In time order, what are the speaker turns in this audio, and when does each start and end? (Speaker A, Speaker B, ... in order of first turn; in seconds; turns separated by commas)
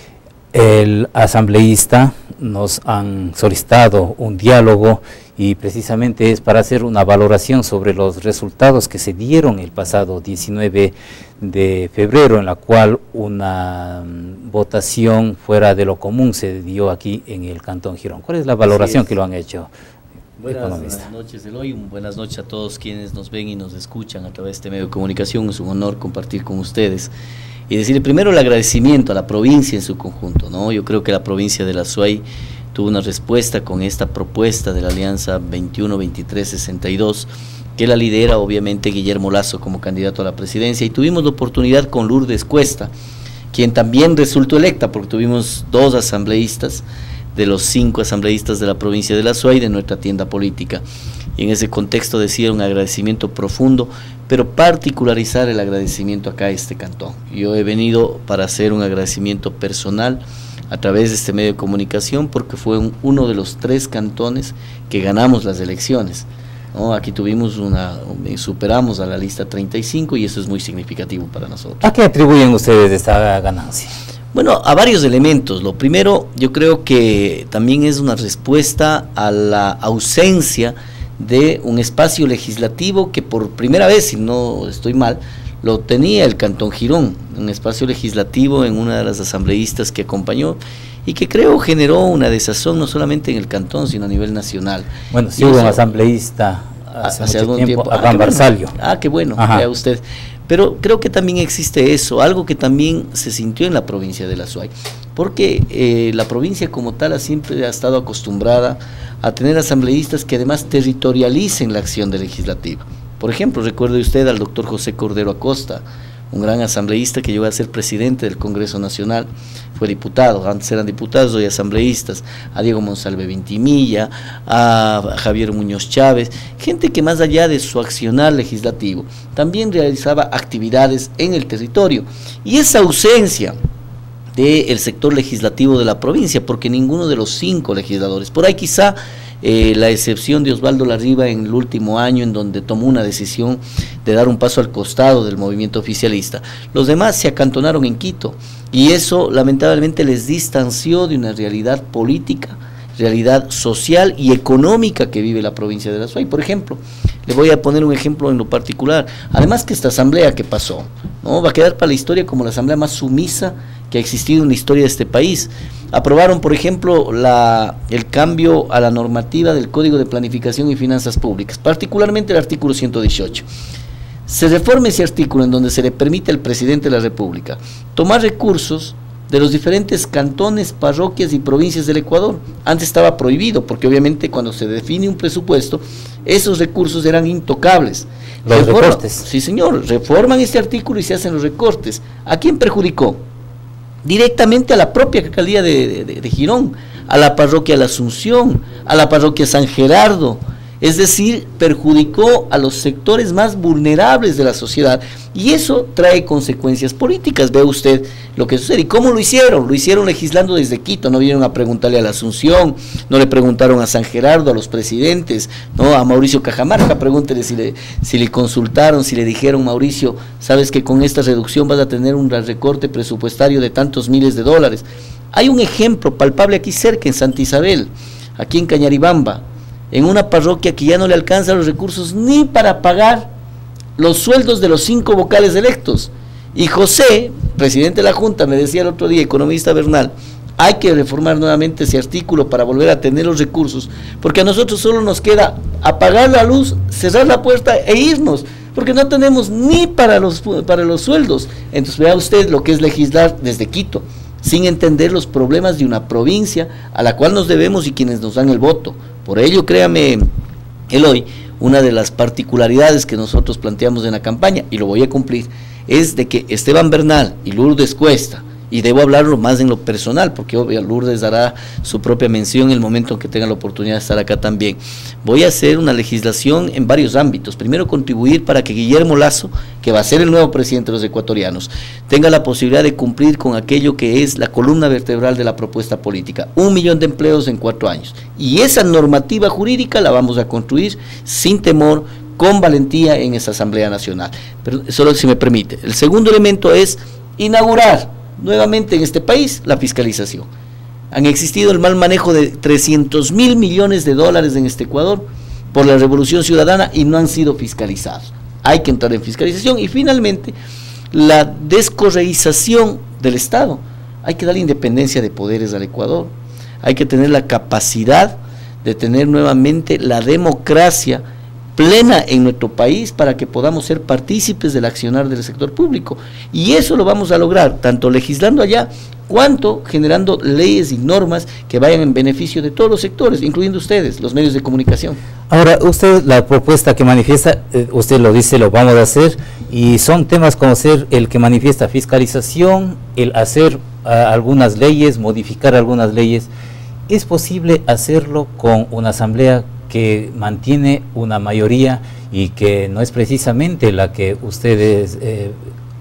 Speaker A: 0.5-19.7, Speaker B: 18.6-19.1, Speaker B: 20.4-27.1, Speaker A: 20.5-21.1, Speaker B: 27.7-42.9, Speaker B: 43.5-50.8, Speaker B: 51.4-71.8, Speaker A: 71.8-73.9, Speaker B: 74.3-95.8, Speaker A: 95.1-98.7, Speaker B: 97.0-133.6, Speaker A: 99.4-99.7, Speaker B: 134.4-173.5, Speaker B: 174.3-193.2, Speaker A: 188.5-189.2, Speaker B: 194.0-233.3, Speaker B: 234.0-260.2, Speaker B: 260.9-300.5, Speaker B: 301.1-310.6, Speaker B: 311.1-316.3, Speaker B: 316.8-321.2, Speaker B: 321.8-335.2, Speaker A: 335.5-346.5, Speaker A: 347.1-355.6